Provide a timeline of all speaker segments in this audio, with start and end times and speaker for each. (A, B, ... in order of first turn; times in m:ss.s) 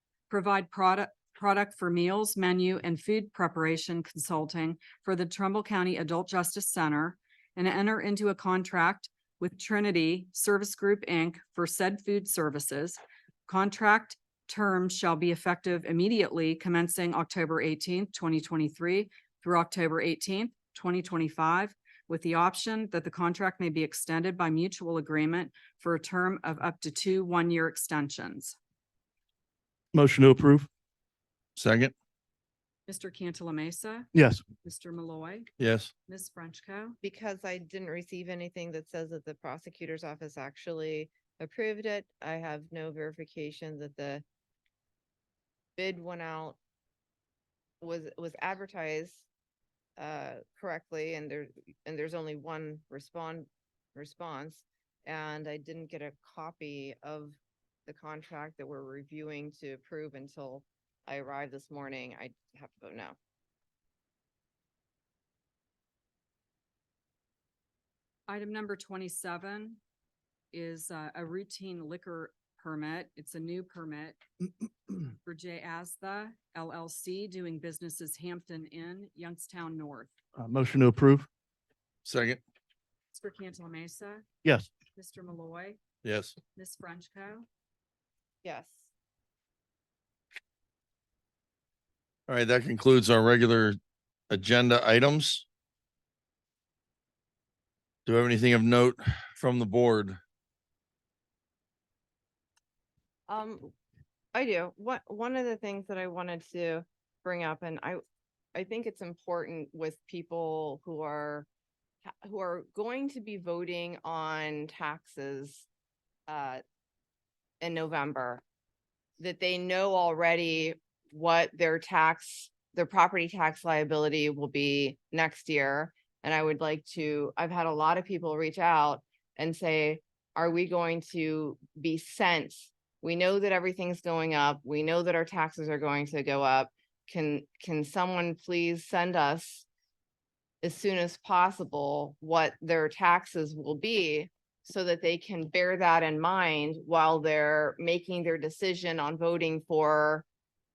0:00.3-0:28.6 A
0:29.9-0:30.7 B
0:31.6-0:31.9 C
0:32.9-0:35.5 A
0:34.1-0:34.4 B
0:35.6-0:35.9 C
0:36.1-0:37.0 A
0:37.0-0:44.2 D
0:45.8-0:46.6 D
0:47.8-0:49.3 D
0:50.0-1:03.2 D
1:08.3-1:09.8 A
1:10.5-1:14.2 A
1:15.2-1:20.1 A
1:20.4-1:21.3 B
1:22.0-1:22.4 C
1:23.1-1:25.8 A
1:24.4-1:24.7 B
1:26.0-1:26.4 C
1:26.6-1:27.5 A
1:28.4-1:28.9 D
1:32.3-1:33.8 C
1:34.3-1:35.4 C
1:38.1-1:40.2 C
1:43.3-1:43.7 D
1:44.3-1:48.0 D
1:48.5-1:51.5 D
1:52.0-1:55.7 D
1:56.3-1:56.6 D
1:57.6-1:58.4 D
1:59.2-2:19.7 D
2:20.6-2:30.2 D